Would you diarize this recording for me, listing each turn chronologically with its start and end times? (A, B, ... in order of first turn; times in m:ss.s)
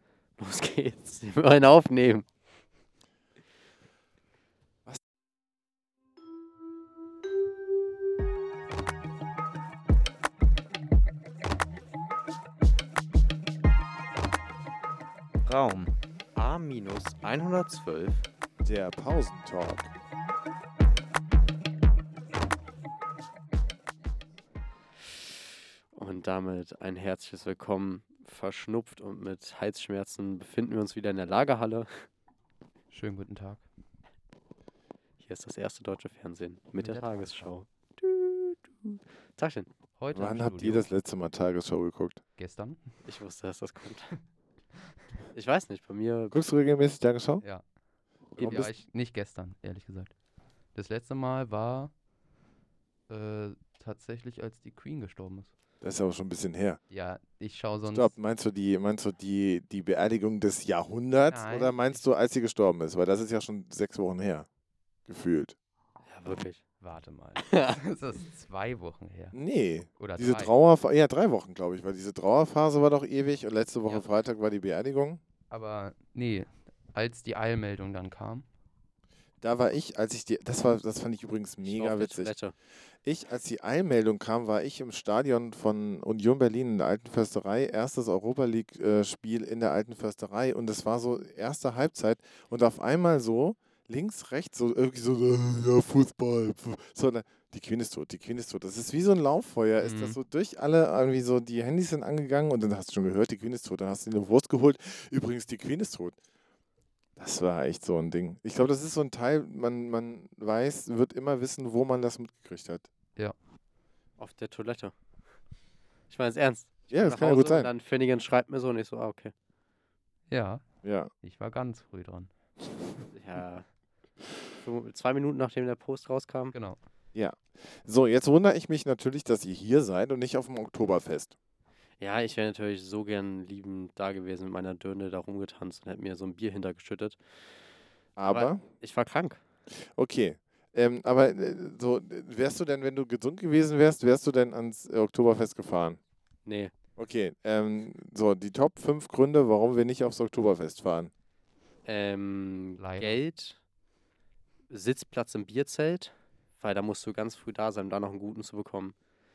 0:00.4-0:02.3 A
0:15.4-0:18.3 B
0:18.6-0:19.9 C
0:25.9-0:31.9 A
0:32.9-0:33.6 D
0:35.2-0:39.7 A
0:36.8-0:37.5 D
0:40.0-0:40.9 D
0:40.1-0:42.2 C
0:42.4-0:42.9 D
0:43.1-0:44.1 A
0:45.3-0:46.4 A
0:46.3-0:47.4 C
0:48.4-0:50.1 D
0:48.4-0:48.7 C
0:50.8-0:51.9 D
0:53.1-0:55.5 D
0:55.8-0:56.8 C
0:56.9-0:58.1 D
0:57.9-1:04.5 C
1:01.3-1:01.8 D
1:05.1-1:05.6 C
1:06.1-1:06.6 A
1:06.8-1:09.4 D
1:07.5-1:07.8 A
1:09.3-1:15.2 C
1:10.0-1:10.5 D
1:15.5-1:18.5 D
1:19.4-1:22.4 C
1:21.6-1:22.5 A
1:23.0-1:46.2 C
1:39.8-1:40.2 D
1:47.2-1:52.9 C
1:54.2-1:54.9 A
1:56.1-1:59.3 A
1:56.9-1:57.7 C
2:00.3-2:00.6 D
2:00.8-2:01.1 C
2:01.2-2:02.3 D
2:03.1-2:03.7 A
2:04.6-2:06.6 A
2:06.5-2:06.8 D
2:07.1-2:11.4 C
2:12.0-2:17.2 A
2:18.2-2:18.6 C
2:18.3-2:19.4 A
2:20.0-2:26.0 C
2:26.5-2:26.7 A
2:27.0-2:31.1 C
2:31.8-2:33.6 A
2:32.8-2:33.2 D
2:34.7-2:39.0 A